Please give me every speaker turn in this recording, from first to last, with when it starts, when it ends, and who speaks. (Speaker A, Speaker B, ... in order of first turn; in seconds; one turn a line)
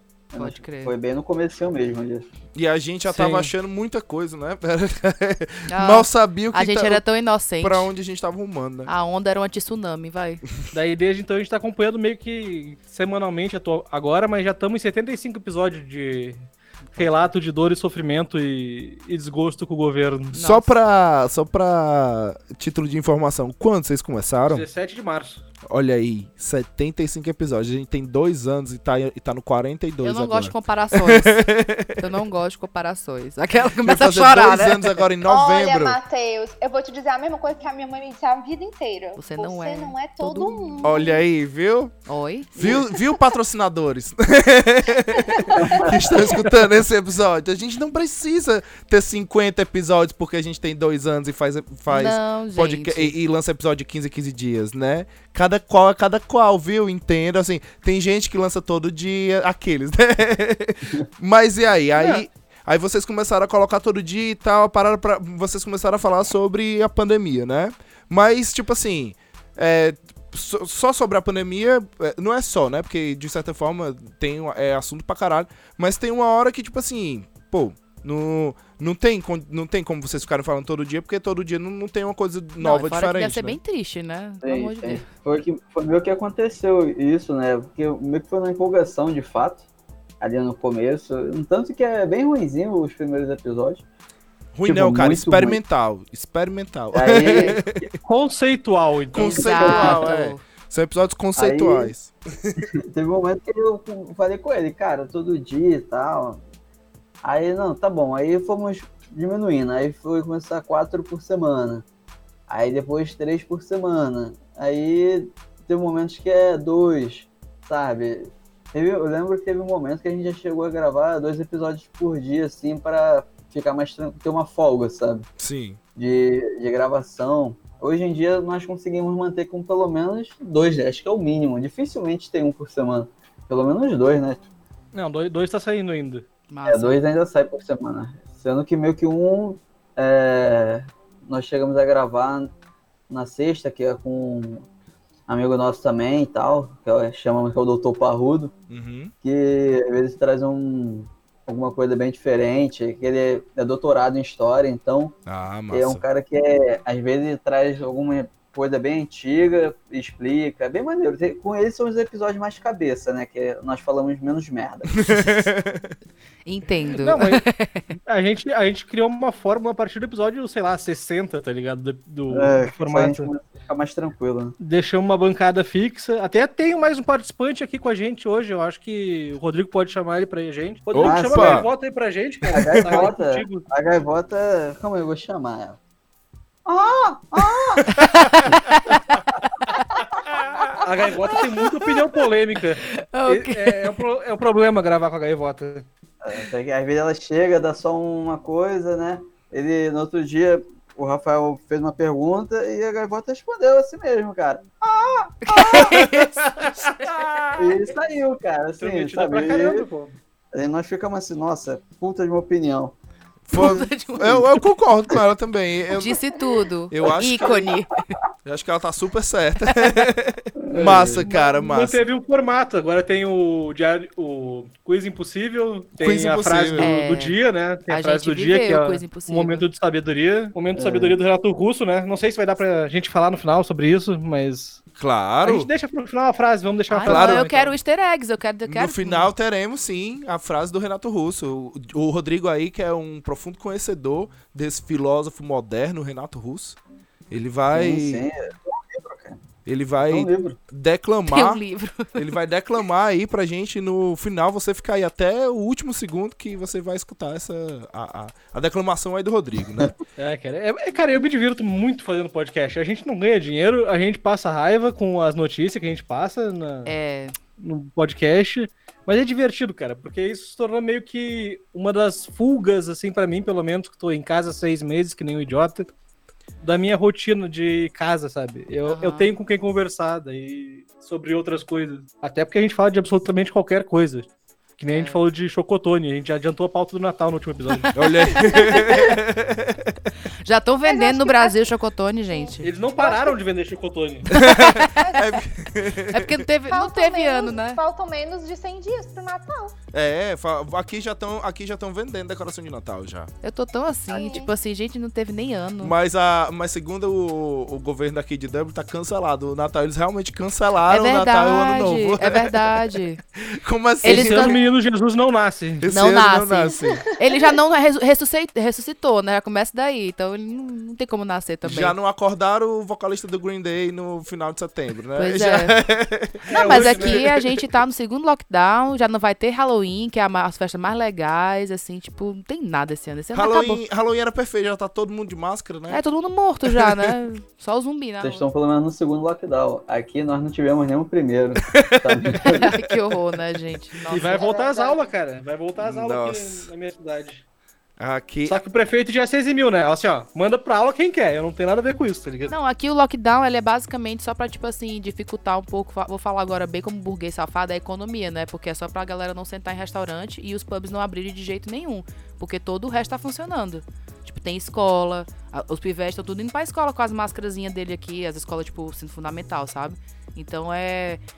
Speaker A: 0.3-2.3
Speaker B: 0.3-0.9
Speaker C: 2.5-7.0
Speaker D: 3.1-3.5
Speaker B: 5.7-7.9
Speaker C: 7.6-8.9
Speaker B: 8.9-10.4
Speaker D: 10.7-20.4
Speaker B: 16.9-17.3
Speaker B: 20.3-20.7
Speaker C: 20.3-24.6
Speaker D: 24.5-25.4
Speaker C: 25.7-32.0
Speaker B: 30.0-35.0
Speaker C: 33.8-36.0
Speaker E: 35.2-41.2
Speaker B: 39.1-40.8
Speaker C: 40.8-41.9
Speaker B: 42.1-42.9
Speaker C: 42.5-83.6
Speaker A: 45.6-45.9
Speaker B: 51.9-53.1
Speaker D: 62.0-62.2
Speaker B: 82.6-85.0
Speaker A: 84.4-89.7
Speaker A: 90.2-93.8
Speaker C: 94.5-97.9
Speaker A: 94.7-95.6
Speaker A: 96.9-97.9
Speaker D: 98.0-99.4
Speaker C: 99.1-102.6
Speaker B: 99.2-100.4
Speaker A: 99.4-100.1
Speaker A: 101.4-101.9
Speaker A: 102.8-106.4
Speaker A: 107.2-111.8
Speaker A: 112.5-125.3
Speaker C: 125.4-125.8
Speaker A: 126.0-134.4
Speaker D: 134.9-136.2
Speaker B: 136.5-137.0
Speaker A: 136.7-142.5
Speaker A: 143.1-144.7
Speaker A: 145.3-148.5
Speaker C: 148.7-149.1
Speaker A: 149.2-155.2
Speaker C: 155.2-156.0
Speaker A: 155.7-165.0
Speaker C: 164.9-165.9
Speaker B: 166.5-167.9
Speaker D: 166.9-167.4
Speaker D: 168.1-173.3
Speaker A: 172.3-174.6
Speaker D: 174.6-183.7
Speaker C: 180.9-181.7
Speaker A: 181.0-181.7
Speaker A: 182.5-185.8
Speaker A: 186.7-188.0
Speaker C: 188.0-188.3
Speaker B: 188.0-189.0
Speaker D: 190.8-195.9
Speaker B: 192.8-193.9
Speaker A: 196.2-206.0
Speaker B: 205.5-207.1
Speaker C: 205.7-207.7
Speaker A: 207.6-209.9
Speaker D: 208.8-210.2
Speaker A: 210.5-213.0
Speaker C: 213.5-216.2
Speaker B: 213.5-214.4
Speaker A: 213.6-214.5
Speaker B: 215.9-218.1
Speaker C: 216.9-217.7
Speaker C: 218.4-222.0
Speaker B: 219.7-220.0
Speaker A: 220.7-221.2
Speaker D: 220.7-234.8
Speaker C: 226.0-226.9
Speaker B: 226.8-227.4
Speaker B: 227.9-229.7
Speaker A: 230.8-231.2
Speaker C: 235.0-235.7
Speaker D: 235.4-237.8
Speaker B: 236.9-239.3
Speaker C: 237.0-237.5
Speaker C: 238.7-246.8
Speaker C: 247.3-248.2
Speaker A: 247.7-249.4
Speaker C: 249.7-251.6
Speaker A: 250.1-250.6
Speaker B: 251.3-252.2
Speaker C: 252.1-259.9
Speaker D: 260.2-266.9
Speaker B: 266.9-267.4
Speaker D: 267.6-275.9
Speaker D: 276.6-287.9
Speaker B: 278.9-279.3
Speaker B: 284.9-285.2
Speaker C: 288.0-290.0
Speaker B: 288.0-289.0
Speaker B: 290.4-292.7
Speaker E: 290.9-291.7
Speaker E: 292.3-293.4
Speaker D: 292.6-294.3
Speaker B: 294.4-295.1
Speaker C: 294.4-296.5
Speaker E: 295.0-295.3
Speaker B: 296.1-297.8
Speaker E: 296.7-299.8
Speaker C: 299.9-303.3
Speaker B: 303.4-305.9
Speaker E: 304.1-304.5
Speaker C: 305.8-314.6
Speaker B: 310.9-313.2
Speaker B: 314.0-314.6
Speaker D: 314.0-315.9
Speaker C: 315.8-317.0
Speaker B: 315.9-321.9
Speaker E: 316.8-317.1
Speaker C: 321.6-327.6
Speaker B: 325.2-325.8
Speaker D: 326.5-327.3
Speaker B: 326.5-333.8
Speaker C: 333.3-336.0
Speaker B: 335.9-338.4
Speaker C: 336.6-337.1
Speaker A: 338.2-342.7
Speaker C: 341.7-343.1
Speaker B: 342.4-344.5
Speaker D: 344.1-347.4
Speaker E: 344.3-345.1
Speaker C: 345.8-346.7
Speaker C: 348.0-348.6
Speaker D: 348.5-352.5
Speaker B: 352.5-371.2